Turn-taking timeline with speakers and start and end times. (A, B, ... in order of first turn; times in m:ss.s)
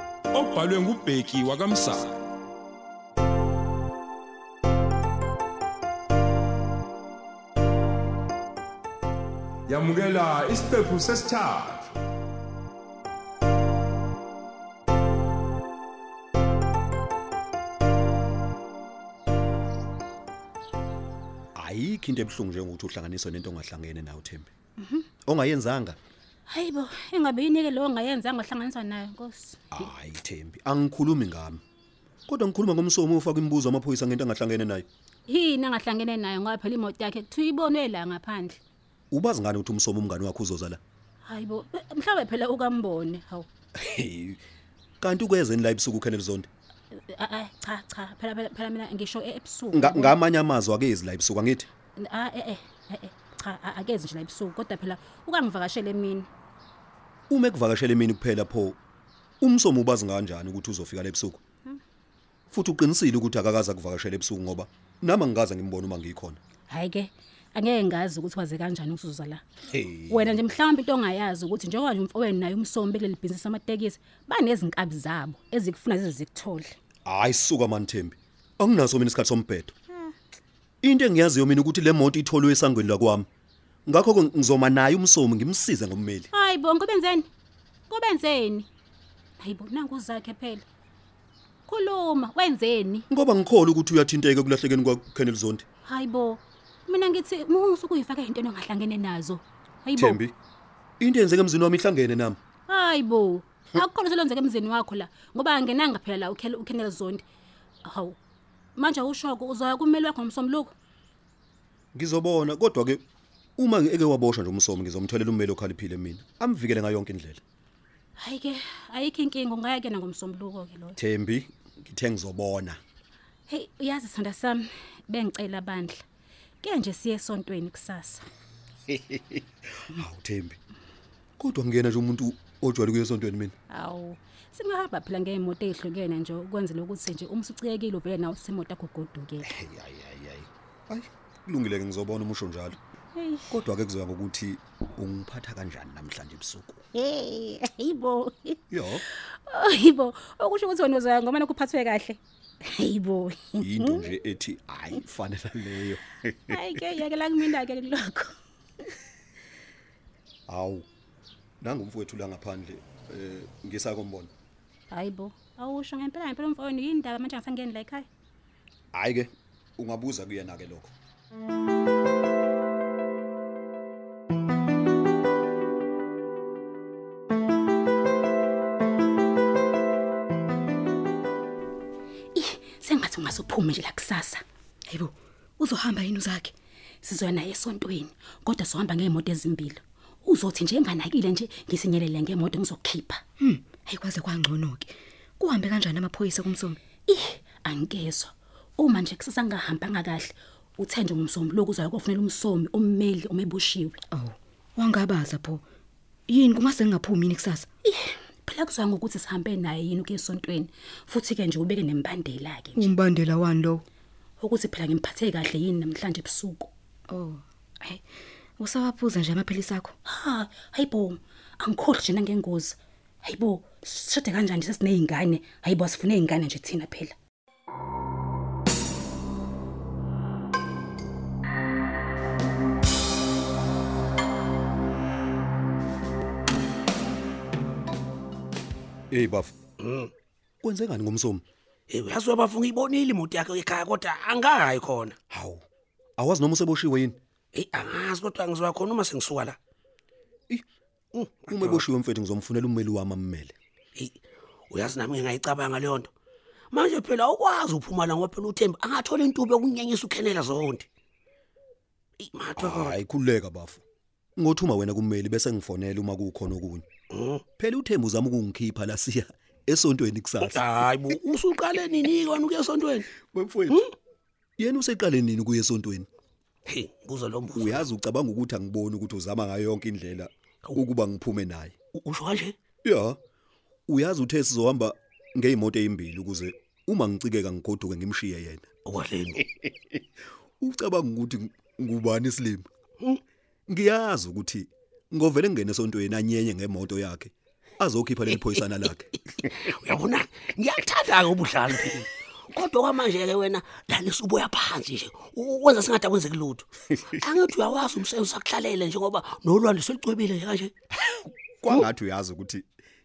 0:00.3-0:02.3 A
0:09.7-0:11.9 A
0:21.6-0:24.5 B
0:24.8-0:25.1 C
0:25.2-0:26.0 B
0:26.5-0:29.6 C
0:29.7-0:31.6 B
0:32.3-0:34.9 B
0:35.3-0:38.6 C
0:39.1-0:40.8 B
0:41.2-0:43.5 C
0:43.8-0:44.4 B
0:45.0-0:46.5 B
0:47.1-0:50.2 C
0:49.7-0:51.7 B
0:52.0-0:56.3 C
0:57.3-0:58.8 B
0:59.4-1:01.4 B
1:02.5-1:06.4 B
1:06.7-1:09.4 C
1:09.7-1:10.3 B
1:10.1-1:16.8 C
1:17.1-1:19.7 B
1:20.8-1:23.3 B
1:23.9-1:26.3 B
1:26.3-1:27.3 C
1:27.9-1:28.7 C
1:29.4-1:30.6 C
1:31.7-1:33.1 C
1:33.1-1:35.6 B
1:35.8-1:40.2 C
1:40.0-1:40.3 B
1:41.0-1:42.4 B
1:42.7-1:47.2 C
1:47.8-1:48.2 C
1:48.8-1:50.7 C
1:51.9-1:53.0 B
1:53.6-1:57.4 B
1:58.2-2:01.0 C
2:01.0-2:02.8 B
2:03.5-2:06.0 C
2:06.6-2:08.2 C
2:08.9-2:10.6 B
2:11.4-2:13.5 B
2:13.7-2:19.5 C
2:19.5-2:22.8 B
2:23.2-2:23.6 C
2:23.5-2:26.8 B
2:26.9-2:34.1 C
2:28.7-2:29.0 B
2:33.6-2:36.6 B
2:36.5-2:38.4 C
2:40.5-2:40.9 B
2:41.6-2:44.3 B
2:44.9-2:48.1 C
2:48.9-2:50.9 B
3:02.3-3:04.4 C
3:04.9-3:06.5 D
3:07.0-3:13.2 C
3:13.4-3:16.8 D
3:17.1-3:24.0 C
3:24.1-3:25.6 D
3:26.3-3:27.7 D
3:27.8-3:32.9 C
3:32.8-3:33.8 D
3:34.4-3:36.7 C
3:37.1-3:38.0 D
3:38.6-3:39.9 D
3:40.1-3:47.2 C
3:59.1-3:59.5 B
3:59.8-4:00.1 E
4:00.6-4:01.4 B
4:01.9-4:05.2 E
4:05.3-4:05.6 B
4:06.2-4:07.2 B
4:07.5-4:09.6 E
4:11.1-4:11.8 E
4:11.5-4:13.6 B
4:14.0-4:16.1 E
4:16.7-4:20.9 E
4:22.2-4:22.9 E
4:22.6-4:23.8 B
4:24.4-4:26.9 B
4:27.1-4:27.4 E
4:27.6-4:30.9 B
4:30.4-4:33.1 E
4:33.2-4:33.8 B
4:34.6-4:36.1 B
4:36.7-4:37.8 E
4:37.5-4:41.8 B
4:41.9-4:42.6 E
4:42.8-4:43.2 B
4:43.9-4:48.7 B
4:48.8-4:49.4 E
4:50.6-4:52.7 B
4:53.7-4:59.1 B
4:59.4-5:10.7 E
5:11.1-5:12.6 B